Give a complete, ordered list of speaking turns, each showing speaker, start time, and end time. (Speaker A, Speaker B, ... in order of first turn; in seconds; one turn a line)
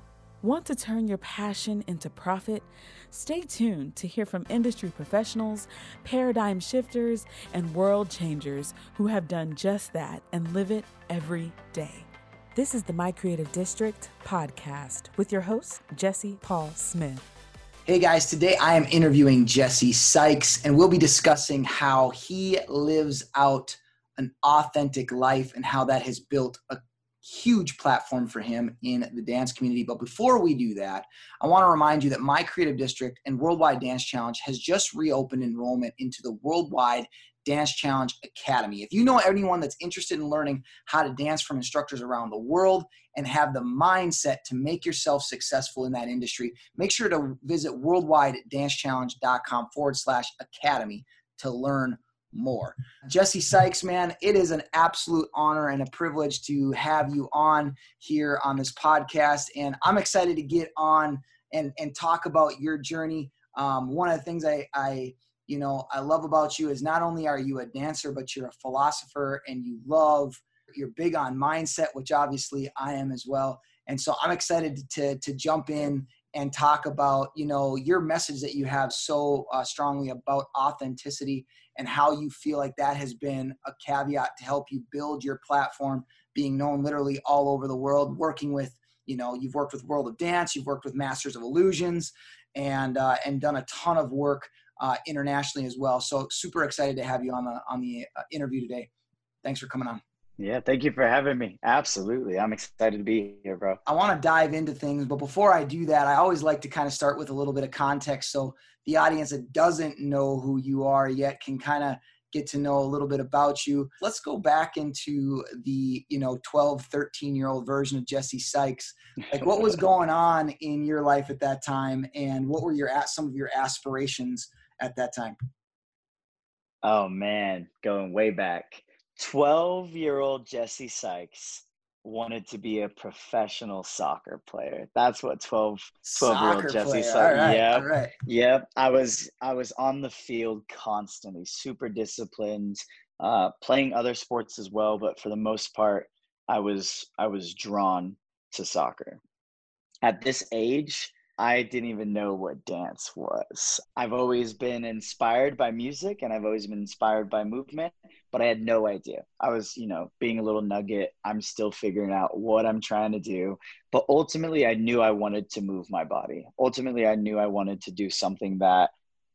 Speaker A: 0.4-17.2
Speaker B: 17.9-98.9
Speaker B: 99.4-100.0
Speaker C: 100.4-103.8
Speaker B: 103.8-125.4
Speaker C: 126.8-149.2
Speaker B: 136.0-138.1
Speaker C: 150.0-168.9